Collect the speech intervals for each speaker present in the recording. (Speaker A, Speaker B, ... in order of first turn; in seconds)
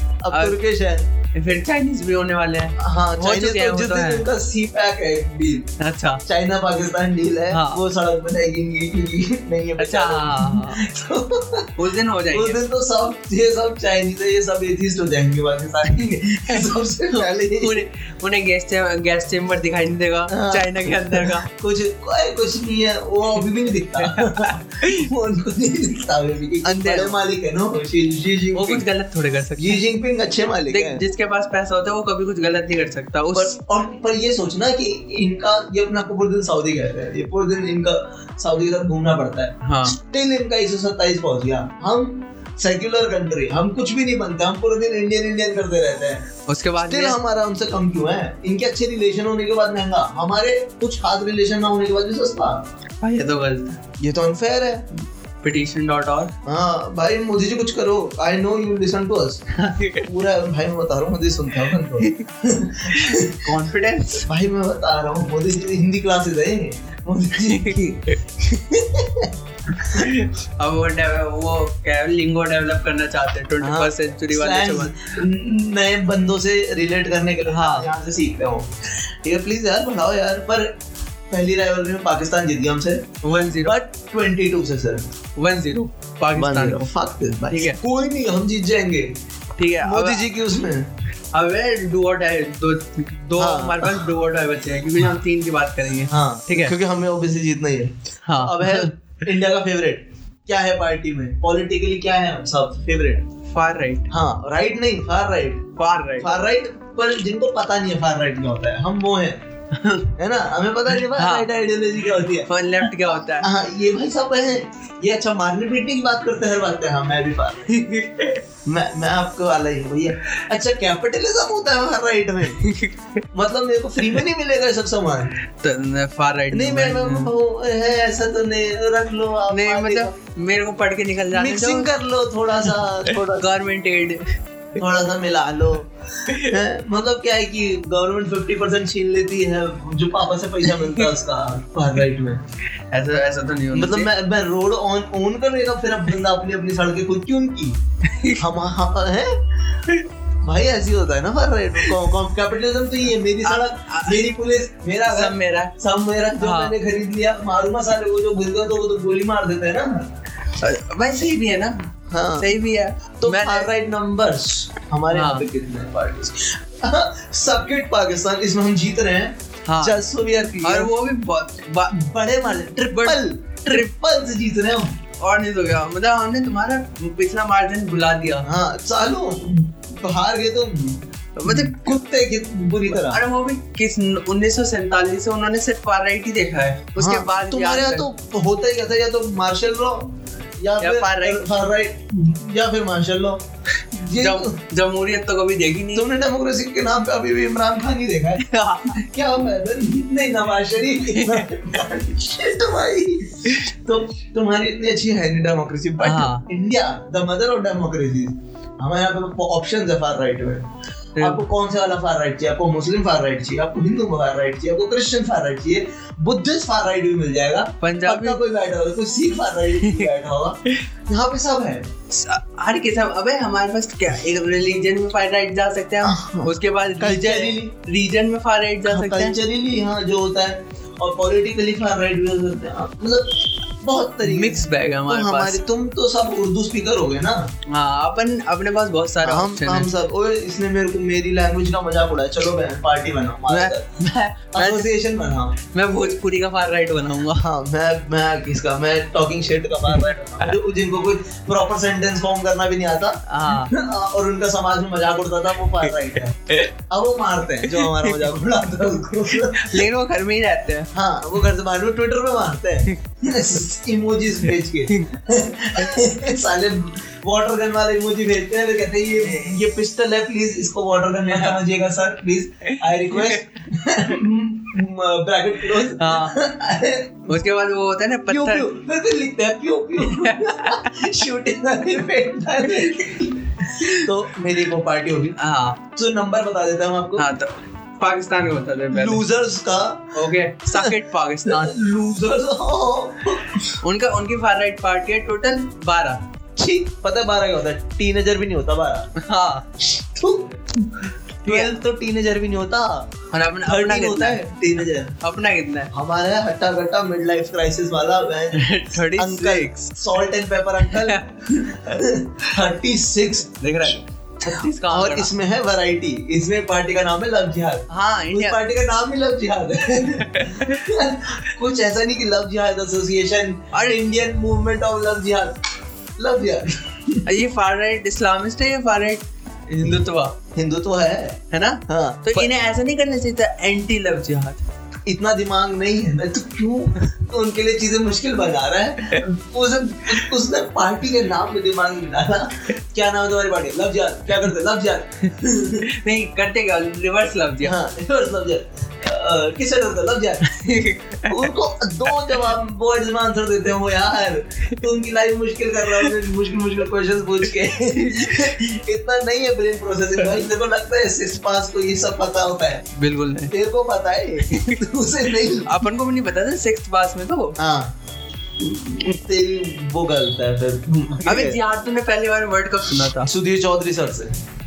Speaker A: 0.2-1.1, 2.8-5.7, 6.2-17.8, 20.3-28.9, 29.6-31.0, 33.3-46.3, 46.8-52.6, 54.0-54.9, 56.4-63.5, 64.2-70.1, 73.6-80.7, 81.3-85.0, 86.3-89.1, 89.8-90.9, 93.4-94.1, 96.1-103.3, 104.1-109.4, 110.2-117.7, 118.6-122.7, 123.3-125.3, 126.5-130.1, 131.3-133.5, 134.7-142.4, 143.7-147.8, 148.3-149.8, 150.4-160.1, 162.1-162.6, 163.2-170.9, 171.9-175.0, 178.4-183.2, 187.0-194.6, 195.9-210.7, 211.2-221.9, 226.0-227.7, 228.9-237.5, 239.2-243.9, 244.5-245.6, 247.3-259.9, 260.9-277.4, 278.3-287.3, 288.9-293.8, 296.6-299.1, 299.8-305.1, 305.9-325.6, 326.2-327.3, 330.5-332.5, 335.1-345.9, 347.6-350.7, 351.2-362.9, 363.5-365.8, 367.6-367.9, 368.6-371.6, 373.1-374.4
Speaker B: 0.3-0.6, 1.3-4.3, 5.8-6.2, 7.5-7.8, 9.8-10.9, 11.8-12.6, 16.0-21.5, 24.0-25.1, 26.6-27.2, 28.5-29.8, 30.7-33.5, 39.6-40.0, 46.5-47.2, 53.0-53.8, 55.4-56.3, 59.5-60.1, 62.0-62.2, 62.9-64.3, 67.4-67.9, 69.7-75.2, 77.5-77.9, 83.2-83.8, 85.3-86.9, 87.5-87.8, 89.6-90.3, 91.3-96.7, 98.2-98.9, 103.5-104.1, 105.8-106.3, 109.7-110.1, 111.0-111.5, 112.5-113.5, 117.7-118.4, 122.5-123.2, 125.5-127.3, 129.5-131.9, 132.7-134.4, 136.3-136.6, 140.7-141.1, 142.9-144.1, 148.0-148.4, 153.4-154.3, 155.0-155.8, 156.4-156.7, 160.5-163.7, 165.1-165.4, 169.7-170.0, 170.6-172.0, 172.9-173.9, 175.2-178.5, 181.4-181.9, 182.9-188.1, 190.8-191.4, 194.1-196.1, 198.4-199.1, 201.1-201.5, 206.0-206.4, 211.2-211.4, 217.8-218.4, 219.8-220.1, 222.1-229.4, 234.2-235.6, 237.7-239.9, 243.5-244.9, 245.7-247.5, 253.3-253.7, 257.7-258.3, 259.3-260.9, 265.8-266.1, 269.2-269.5, 272.6-273.4, 275.9-276.4, 277.3-278.7, 280.0-281.2, 283.8-284.1, 285.4-285.8, 287.2-289.2, 290.1-291.8, 293.8-296.2, 299.1-299.7, 301.4-301.7, 303.3-304.4, 305.2-305.9, 308.5-310.2, 310.8-311.3, 313.6-315.3, 317.9-318.6, 320.2-320.9, 323.7-324.0, 327.2-330.4, 331.5-334.6, 345.8-347.8, 350.4-351.5, 352.1-352.5, 357.9-358.5, 362.9-363.5, 364.4-364.8, 365.5-367.6, 371.2-373.3